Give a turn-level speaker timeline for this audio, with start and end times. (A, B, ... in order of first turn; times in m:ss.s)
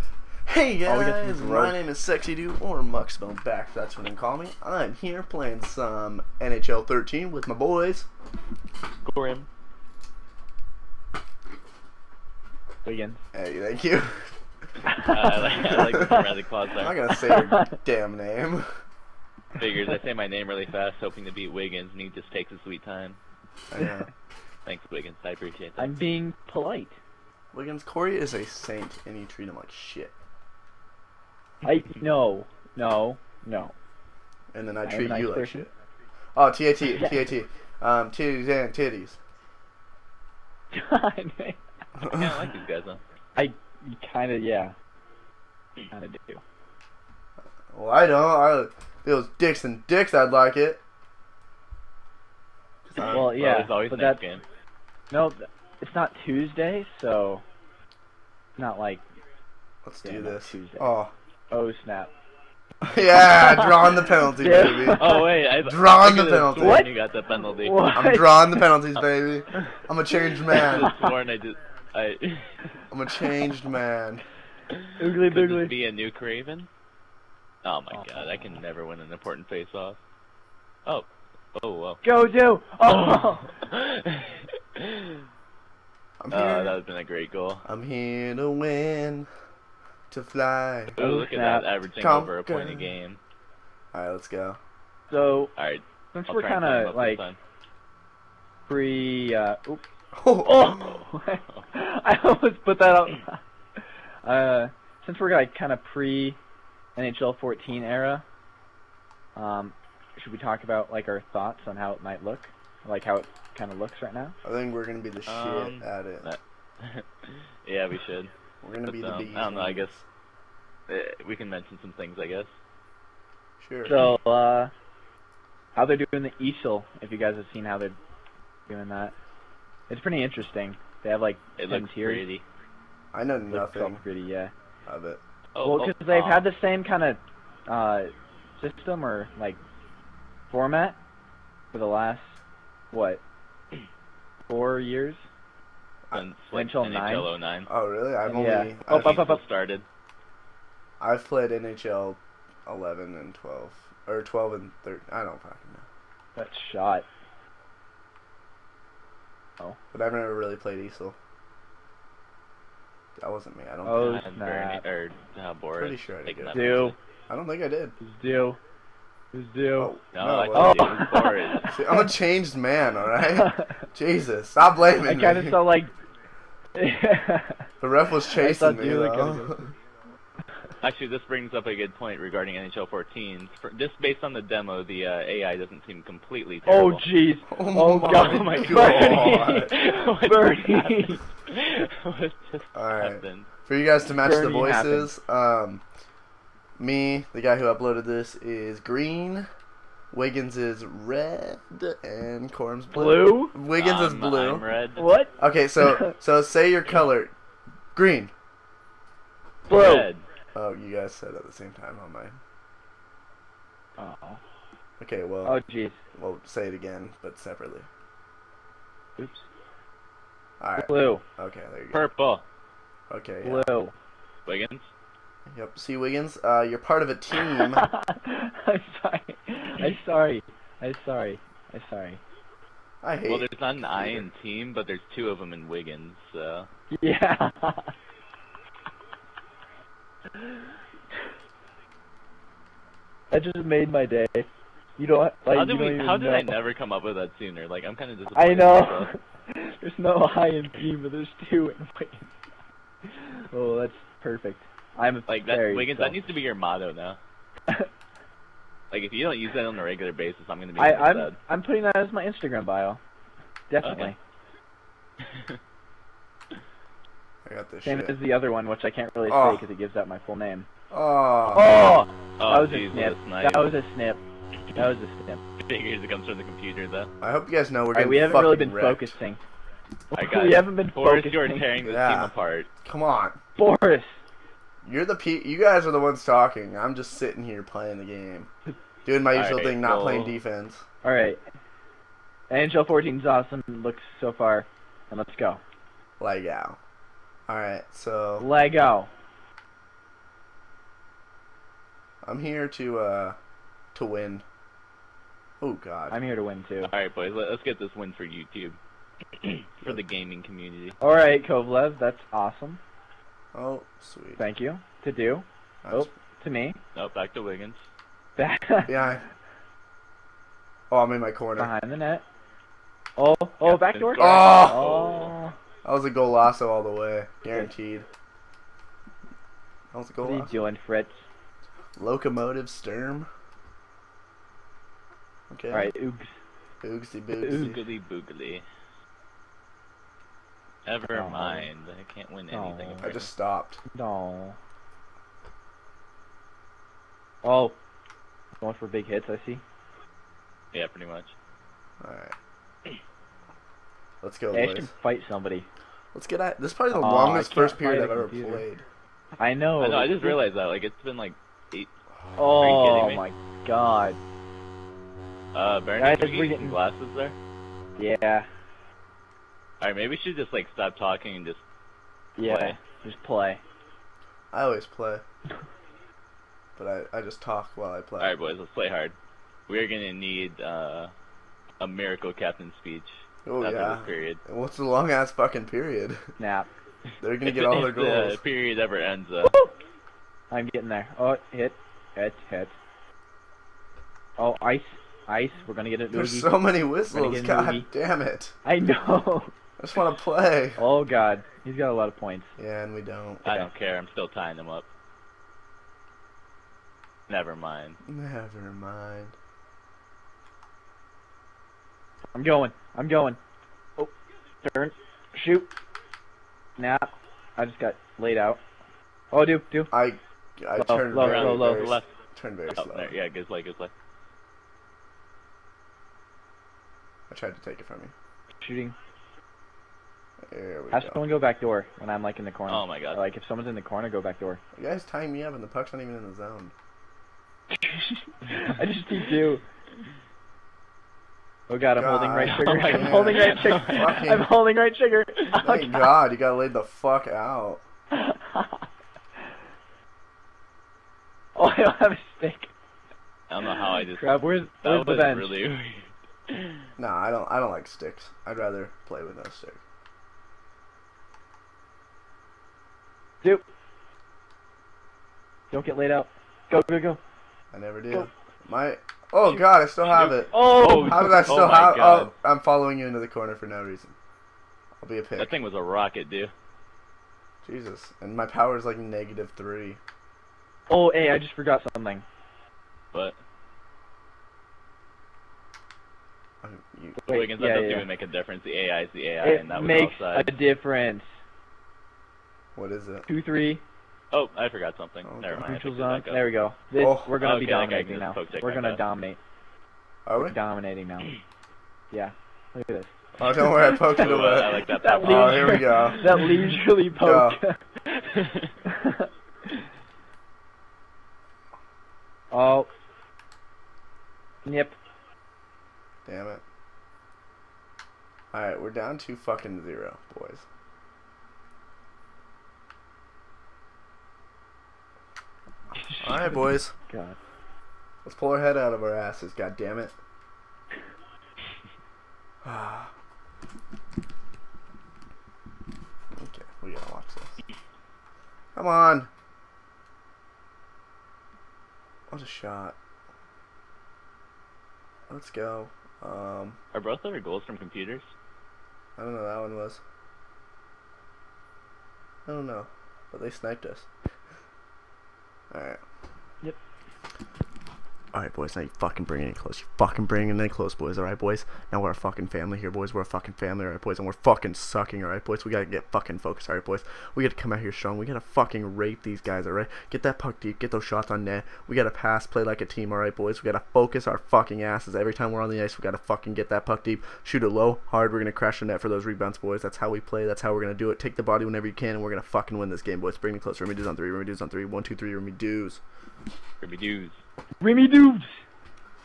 0:00.5-0:08.1 A
0:00.9-0:01.8 B
0:09.0-0:09.5 C
0:12.8-0:13.2 B
0:13.3-0:14.3 A
0:15.0-0:16.9 C
0:15.7-0:16.2 A
0:16.8-0:18.7 A
0:17.2-0:17.8 B
0:19.6-0:23.2 C
0:23.7-0:24.1 A
0:24.6-0:25.9 C
0:25.8-0:27.0 B
0:27.5-0:30.1 A
0:31.6-0:33.7 B
0:34.5-0:35.7 A
0:34.9-0:35.7 B
0:36.4-0:39.2 A
0:40.7-0:41.6 B
0:42.0-0:42.4 A
0:42.0-0:43.0 C
0:43.4-0:44.7 B
0:45.9-0:46.4 B
0:47.7-0:50.8 A
0:52.9-0:53.3 A
0:53.0-0:54.4 C
0:53.1-0:54.2 B
0:55.1-0:57.4 B
0:58.6-0:59.0 B
0:59.8-1:01.1 A
1:00.0-1:00.9 B
1:01.5-1:02.1 B
1:02.8-1:06.9 A
1:03.4-1:03.8 B
1:04.3-1:05.3 B
1:05.0-1:07.8 C
1:06.6-1:06.9 B
1:07.5-1:08.7 B
1:07.9-1:10.9 A
1:10.5-1:12.6 C
1:10.5-1:11.0 B
1:12.9-1:14.2 A
1:15.0-1:15.7 B
1:15.2-1:16.7 C
1:17.6-1:20.0 C
1:18.1-1:18.4 B
1:20.9-1:22.0 C
1:22.0-1:23.5 B
1:23.6-1:25.2 C
1:26.2-1:26.8 A
1:26.3-1:27.6 C
1:27.6-1:29.3 A
1:30.1-1:31.0 A
1:31.0-1:33.2 C
1:31.0-1:31.7 B
1:32.0-1:32.9 A
1:33.9-1:34.6 A
1:35.1-1:35.5 B
1:35.6-1:37.4 C
1:36.1-1:37.2 B
1:38.7-1:39.8 B
1:40.2-1:41.0 A
1:40.4-1:43.4 B
1:44.2-1:46.4 B
1:47.0-1:48.2 B
1:49.4-1:54.4 B
1:54.4-1:56.3 A
1:55.3-1:57.1 C
1:57.6-1:58.3 C
1:58.6-2:00.0 A
1:58.9-2:00.0 C
2:00.9-2:02.5 C
2:03.6-2:04.0 A
2:03.8-2:04.7 B
2:05.8-2:08.0 B
2:08.7-2:09.1 B
2:09.9-2:12.3 B
2:11.6-2:12.4 C
2:13.1-2:14.0 A
2:13.5-2:14.5 B
2:14.9-2:15.2 A
2:15.6-2:16.4 C
2:15.6-2:19.6 B
2:20.5-2:21.0 B
2:21.7-2:22.3 B
2:22.9-2:23.2 B
2:24.5-2:25.2 B
2:26.1-2:27.7 C
2:26.5-2:27.3 B
2:27.7-2:29.3 A
2:28.3-2:29.4 B
2:28.9-2:29.9 C
2:31.0-2:35.9 A
2:36.4-2:37.1 B
2:39.9-2:41.2 A
2:43.2-2:44.2 A
2:43.8-2:44.8 B
2:43.9-2:47.0 C
2:45.8-2:48.0 A
2:46.5-2:47.0 B
2:48.0-2:48.6 B
2:49.3-2:49.9 B
2:49.8-2:51.0 A
2:50.1-2:51.7 C
2:50.5-2:52.1 B
2:51.7-2:55.6 A
2:53.4-2:53.6 B
2:55.0-2:55.9 B
2:56.8-2:57.7 B
2:57.8-2:59.6 A
2:58.3-2:59.6 B
3:00.8-3:07.0 C
3:06.7-3:11.2 B
3:07.5-3:09.7 A
3:08.0-3:13.5 C
3:12.7-3:15.8 A
3:14.1-3:15.1 B
3:16.8-3:19.5 A
3:20.1-3:24.6 A
3:22.9-3:23.6 B
3:23.7-3:25.1 C
3:25.0-3:26.1 B
3:25.4-3:27.3 A
3:27.9-3:28.3 A
3:29.7-3:30.1 B
3:29.7-3:30.2 C
3:30.6-3:32.4 A
3:34.0-3:34.4 B
3:35.0-3:35.6 A
3:35.4-3:36.0 B
3:36.2-3:37.9 A
3:39.2-3:39.4 B
3:40.6-3:42.0 A
3:40.8-3:41.2 B
3:41.9-3:42.4 C
3:43.1-3:43.7 A
3:43.4-3:43.9 B
3:44.5-3:44.9 C
3:45.5-3:47.8 A
3:47.6-3:52.2 B
3:53.0-3:54.3 A
3:53.2-3:56.7 C
3:56.9-3:57.9 B
4:03.3-4:06.6 B
4:05.5-4:09.1 C
4:08.4-4:12.3 B
4:13.5-4:16.3 B
4:15.3-4:17.2 C
4:18.9-4:21.4 C
4:20.8-4:23.0 B
4:23.7-4:24.2 B
4:23.8-4:24.1 C
4:27.4-4:28.2 A
4:27.8-4:30.7 B
4:29.3-4:29.6 A
4:30.9-4:31.8 A
4:31.5-4:34.2 B
4:32.4-4:33.7 C
4:34.7-4:35.4 B
4:35.6-4:37.1 C
4:37.2-4:39.2 A
4:37.9-4:39.4 B
4:40.1-4:41.7 B
4:40.1-4:42.7 C
4:41.8-4:42.3 A
4:42.8-4:43.4 A
4:43.6-4:44.1 B
4:44.8-4:48.5 A
4:49.0-4:50.8 A
4:49.3-4:50.4 C
4:51.0-4:51.4 B
4:52.5-4:55.6 B
4:56.2-4:56.8 A
4:57.5-4:58.5 A
4:58.4-4:59.1 B
5:02.2-5:03.4 A
5:03.9-5:04.4 A
5:05.6-5:06.2 A
5:06.1-5:06.9 B
5:06.8-5:08.8 C
5:09.4-5:11.0 C
5:11.0-5:12.8 B
5:13.5-5:14.4 A
5:14.4-5:16.8 B
5:15.8-5:16.1 A
5:17.0-5:17.8 C
5:18.4-5:19.0 B
5:18.8-5:19.2 A
5:20.9-5:21.7 A
5:21.6-5:22.2 B
5:23.2-5:25.5 B
5:23.6-5:25.4 C
5:24.2-5:25.1 A
5:25.8-5:28.1 A
5:29.9-5:30.5 A
5:30.2-5:31.2 B
5:32.0-5:33.3 A
5:35.5-5:35.9 A
5:35.7-5:36.3 B
5:36.8-5:37.8 A
5:37.4-5:38.7 C
5:40.9-5:43.3 C
5:41.1-5:41.7 B
5:42.5-5:43.0 B
5:43.0-5:43.8 A
5:43.9-5:44.6 B
5:47.4-5:47.8 B
5:48.6-5:49.6 B
5:50.7-5:51.3 C
5:52.0-5:52.4 A
5:54.2-5:54.9 A
5:54.5-5:55.7 B
5:56.1-5:58.8 A
5:56.9-5:58.6 B
5:59.4-6:00.4 B
5:59.8-6:01.9 C
6:02.4-6:04.2 B
6:02.5-6:03.2 C
6:05.5-6:07.4 C
6:06.0-6:06.8 B
6:08.0-6:08.5 B
6:09.8-6:11.6 C
6:12.4-6:13.6 B
6:12.4-6:12.8 C
6:14.5-6:15.2 A
6:16.8-6:18.4 A
6:18.2-6:19.2 C
6:19.7-6:21.1 C
6:21.8-6:24.4 C
6:23.4-6:26.2 A
6:26.4-6:26.7 B
6:27.2-6:28.4 A
6:27.4-6:29.6 C
6:29.4-6:29.7 B
6:30.5-6:32.8 B
6:34.4-6:36.5 B
6:36.1-6:38.6 A
6:37.1-6:37.9 B
6:38.6-6:39.5 B
6:39.8-6:40.8 A
6:40.8-6:42.5 B
6:42.6-6:43.4 A
6:43.4-6:44.9 C
6:47.3-6:48.0 C
6:48.0-6:49.4 A
6:52.3-6:53.4 B
6:54.6-6:55.7 B
6:56.8-6:58.6 B
6:59.3-6:59.9 B
6:59.9-7:03.1 A
7:00.8-7:02.0 B
7:01.2-7:02.1 C
7:02.7-7:03.9 C
7:07.3-7:08.1 A
7:08.6-7:09.0 B
7:10.4-7:11.2 A
7:10.9-7:14.6 B
7:12.7-7:13.2 C
7:14.8-7:16.7 A
7:17.8-7:19.6 B
7:21.7-7:26.1 B
7:22.0-7:24.5 A
7:22.4-7:24.1 C
7:25.6-7:27.8 A
7:28.1-7:28.8 B
7:31.6-7:32.7 B
7:33.5-7:34.3 C
7:34.2-7:35.6 B
7:34.8-7:36.6 C
7:37.0-7:39.8 A
7:45.7-7:47.2 B
7:47.7-7:54.2 A
7:50.2-7:52.3 C
7:50.3-7:51.5 B
7:55.0-7:55.5 A
7:55.4-7:56.5 C
7:57.6-8:00.0 A
8:00.9-8:02.2 B
8:06.6-8:07.2 A
8:07.2-8:08.1 B
8:07.3-8:10.5 C
8:09.4-8:11.2 B
8:12.8-8:13.3 A
8:13.3-8:13.8 B
8:14.3-8:16.4 C
8:15.2-8:15.6 A
8:15.6-8:19.4 B
8:17.0-8:17.3 A
8:17.4-8:19.0 C
8:20.3-8:20.6 A
8:20.4-8:21.4 B
8:22.1-8:23.1 B
8:23.4-8:26.3 A
8:24.0-8:26.3 C
8:24.9-8:27.8 B
8:27.2-8:27.6 A
8:28.3-8:28.7 C
8:28.9-8:29.3 B
8:32.5-8:32.9 B
8:34.7-8:35.0 B
8:36.3-8:36.6 A
8:38.5-8:40.6 A
8:46.1-8:47.4 B
8:46.2-8:46.9 A
8:48.2-8:50.2 A
8:52.6-8:53.1 A
8:56.3-8:57.6 A
8:58.8-8:59.3 A
9:02.3-9:03.0 A
9:05.3-9:06.8 A
9:06.9-9:08.3 C
9:09.2-9:10.0 A
9:12.5-9:14.1 A
9:15.7-9:16.0 A
9:18.3-9:46.0 A
9:46.8-9:47.4 C
9:47.8-9:48.5 B